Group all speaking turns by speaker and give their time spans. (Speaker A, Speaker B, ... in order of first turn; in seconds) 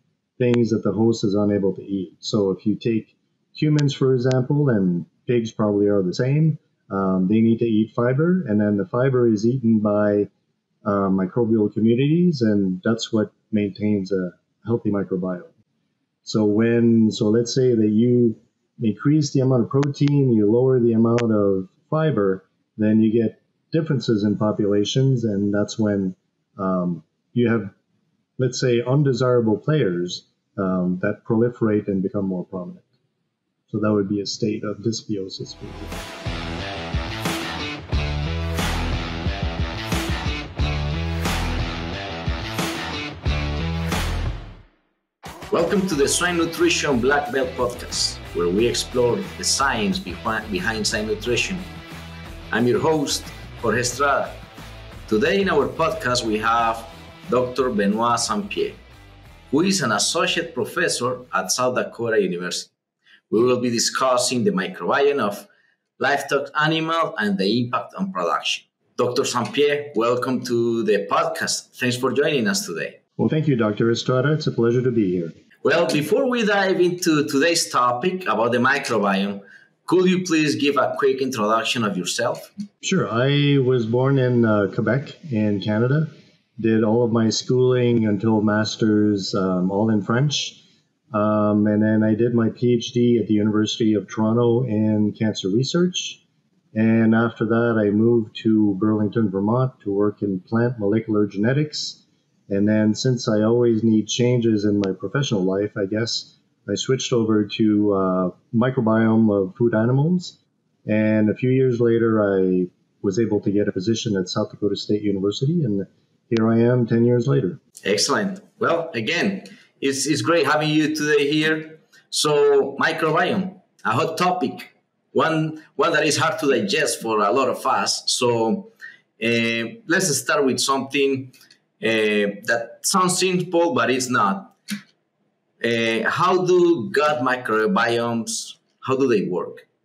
Speaker A: 0.4-10.3, 10.8-15.5, 16.2-27.7, 28.4-32.9, 33.7-36.0, 73.2-75.3, 82.8-90.6, 91.1-96.2, 96.7-117.6
Speaker B: 45.5-51.7, 52.5-54.4, 55.1-58.8, 59.5-62.7, 63.3-65.5, 66.0-73.0, 75.6-82.5, 117.8-134.6, 135.6-139.6